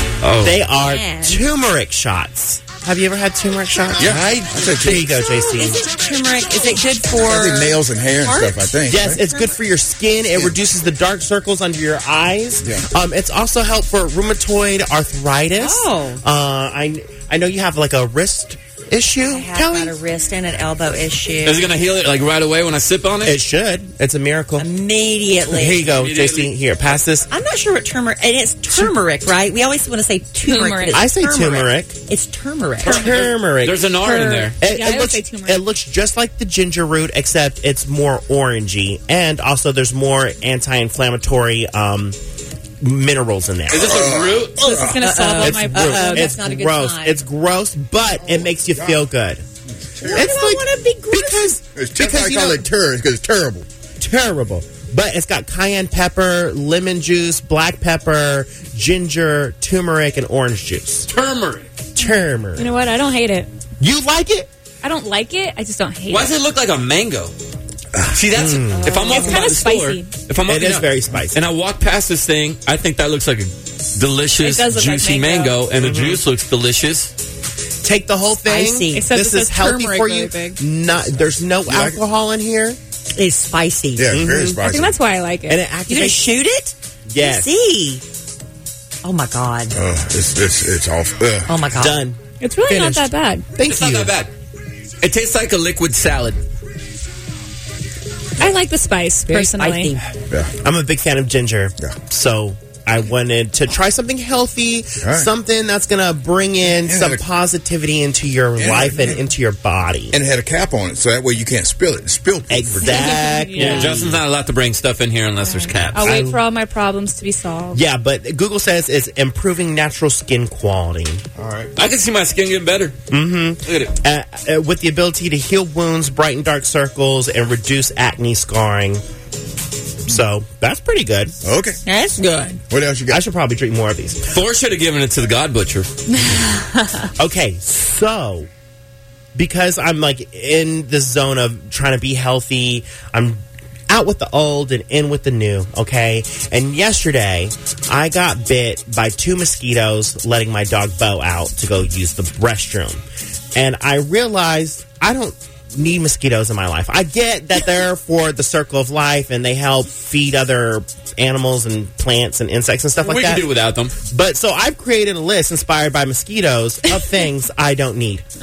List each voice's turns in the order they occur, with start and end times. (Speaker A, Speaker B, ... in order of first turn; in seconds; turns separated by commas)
Speaker A: 0.2-0.6, Speaker B: 0.4-5.8, Speaker C: 0.8-1.4, Speaker D: 4.0-5.1, Speaker C: 5.5-9.6, Speaker D: 7.2-9.2, Speaker B: 8.9-19.9, Speaker C: 15.6-16.2, Speaker C: 19.3-21.7, Speaker A: 21.4-23.4, Speaker B: 23.2-24.7, Speaker C: 24.6-25.9, Speaker B: 25.4-27.3, Speaker A: 25.9-26.6, Speaker C: 27.3-33.0, Speaker B: 28.7-29.0, Speaker E: 30.4-31.1, Speaker B: 30.9-32.0, Speaker A: 32.8-34.6, Speaker E: 32.8-33.3, Speaker B: 32.9-33.9, Speaker E: 33.9-35.6, Speaker B: 34.6-42.2, Speaker B: 42.8-44.1, Speaker A: 43.7-44.6, Speaker D: 43.8-44.9, Speaker E: 44.6-46.5, Speaker C: 44.7-47.2, Speaker B: 45.4-49.4, Speaker D: 48.1-49.1, Speaker D: 50.0-50.4, Speaker C: 50.1-51.6, Speaker B: 50.1-52.7, Speaker D: 51.7-53.6, Speaker B: 54.0-61.1, Speaker A: 61.1-61.7, Speaker B: 62.0-62.7, Speaker E: 62.0-63.5, Speaker B: 63.8-64.5, Speaker E: 64.8-66.4, Speaker A: 66.1-67.3, Speaker A: 68.1-77.1, Speaker B: 68.3-69.4, Speaker E: 68.7-70.1, Speaker B: 70.5-71.4, Speaker E: 74.4-75.6, Speaker B: 75.8-76.2, Speaker B: 77.8-82.8, Speaker C: 78.5-79.1, Speaker E: 78.9-80.6, Speaker D: 81.7-82.0, Speaker C: 83.2-84.3, Speaker D: 84.0-85.0, Speaker B: 84.1-84.6, Speaker E: 84.5-85.7, Speaker B: 85.5-86.3, Speaker C: 85.9-88.0, Speaker B: 87.1-87.5, Speaker C: 89.0-89.7, Speaker D: 89.7-91.7, Speaker C: 91.5-92.0, Speaker B: 91.8-94.2, Speaker E: 92.4-93.5, Speaker A: 93.6-94.3, Speaker A: 95.0-96.4, Speaker E: 98.4-99.9, Speaker C: 99.3-100.0, Speaker B: 100.6-110.1, Speaker D: 105.0-105.3, Speaker D: 106.8-107.2, Speaker D: 108.5-109.2, Speaker D: 110.1-113.0, Speaker B: 112.5-114.2, Speaker E: 112.8-114.0, Speaker A: 113.5-116.2, Speaker E: 115.4-117.8, Speaker B: 116.0-116.4, Speaker B: 117.7-121.2, Speaker D: 121.4-121.7, Speaker A: 121.8-123.0, Speaker B: 123.1-129.0, Speaker A: 123.6-123.9, Speaker B: 130.1-131.4, Speaker D: 131.4-131.8, Speaker C: 131.8-132.6, Speaker D: 132.7-133.2, Speaker B: 133.1-134.2, Speaker A: 134.3-135.9, Speaker E: 136.3-137.1, Speaker B: 137.2-138.5, Speaker B: 139.3-153.0, Speaker B: 153.6-163.5, Speaker A: 163.0-163.9, Speaker B: 164.1-168.2